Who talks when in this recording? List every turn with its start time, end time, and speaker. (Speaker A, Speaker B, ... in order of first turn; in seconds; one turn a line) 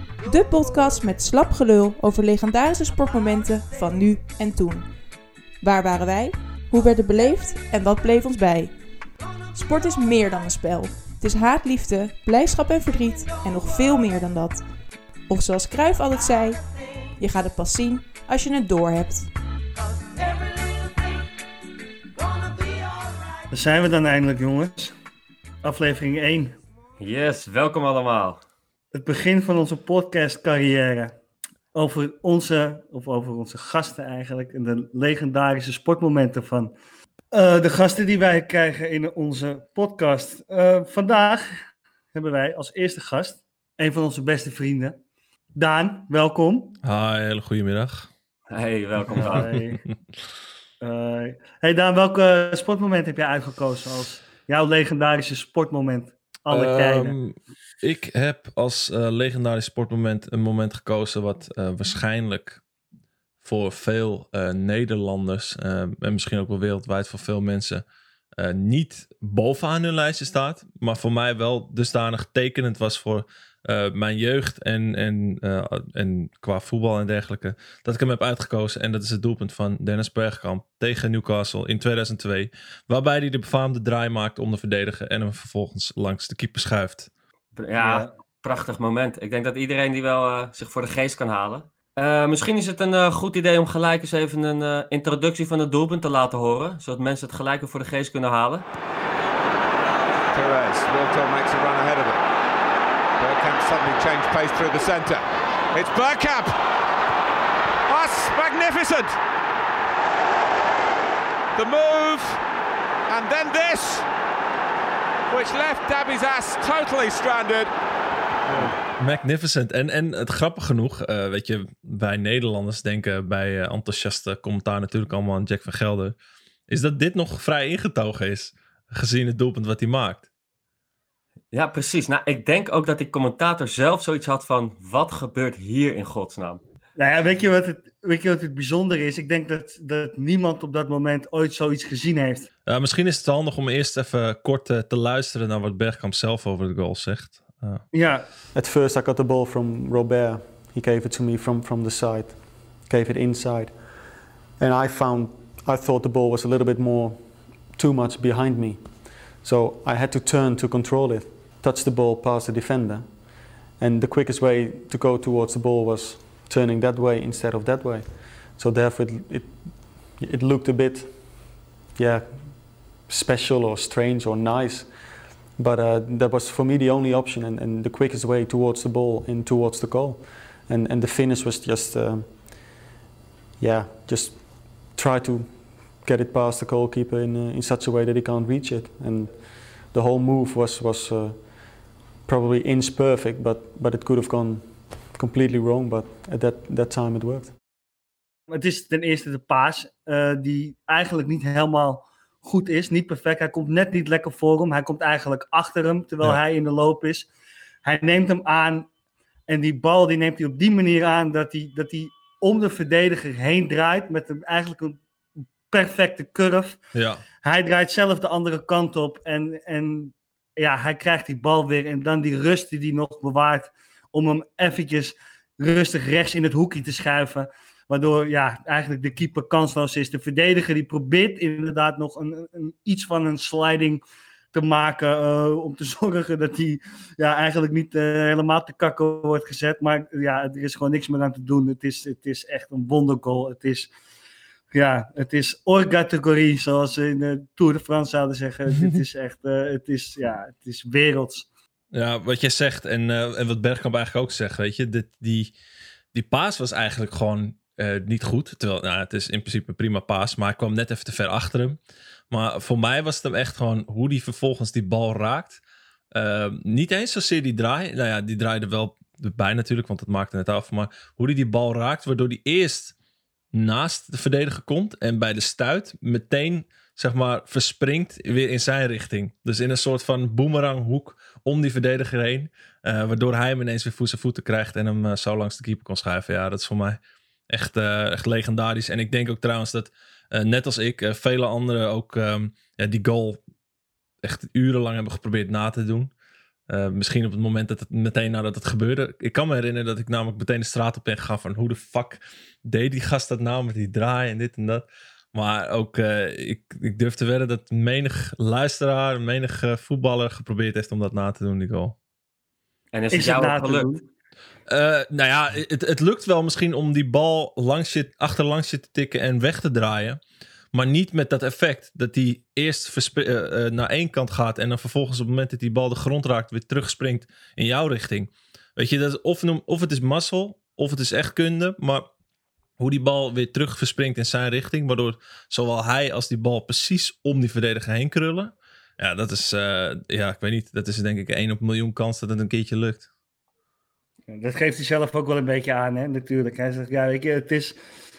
Speaker A: 0.2-4.9
Speaker A: 5.6-8.8
Speaker A: 9.5-19.3
Speaker B: 23.5-24.9
Speaker B: 25.6-26.6
Speaker C: 27.0-28.4
Speaker B: 28.9-31.1
Speaker B: 31.7-36.7
Speaker B: 37.3-41.5
Speaker B: 42.1-45.0
Speaker B: 45.5-46.8
Speaker D: 46.8-48.1
Speaker C: 48.5-49.5
Speaker B: 49.1-49.8
Speaker B: 50.8-57.2
Speaker D: 56.5-62.6
Speaker D: 63.4-67.8
Speaker D: 68.4-87.1
Speaker C: 87.5-98.7
Speaker B: 87.8-88.1
Speaker E: 100.3-102.2
Speaker E: 103.2-106.6
Speaker E: 107.9-109.2
Speaker E: 111.5-112.4
Speaker E: 113.1-114.1
Speaker E: 115.3-117.7
Speaker B: 118.5-118.7
Speaker D: 119.0-126.2
Speaker D: 126.7-130.3
Speaker C: 131.5-136.6
Speaker B: 136.9-142.5
Speaker D: 142.7-147.8
Speaker B: 147.9-148.3
Speaker F: 148.5-153.9
Speaker F: 154.6-174.9
Speaker F: 175.6-182.7
Speaker F: 183.6-197.6
Speaker B: 198.5-207.3
Speaker B: 207.8-208.9
Speaker B: 209.5-215.0
Speaker B: 215.7-216.8
Speaker D: 216.9-217.2
Speaker B: 217.4-234.0
Speaker B: 234.5-243.9
Speaker B: 244.7-251.5
Speaker D: 251.9-255.5
Speaker D: 256.1-261.8
Speaker D: 262.3-265.6
Speaker D: 266.1-272.9
Speaker D: 273.5-293.4
Speaker D: 294.2-296.1
Speaker D: 296.7-311.9
Speaker C: 312.9-313.9
Speaker B: 313.1-314.0
Speaker D: 314.7-320.2
Speaker D: 320.7-332.1
Speaker D: 332.8-343.1
Speaker B: 344.3-347.8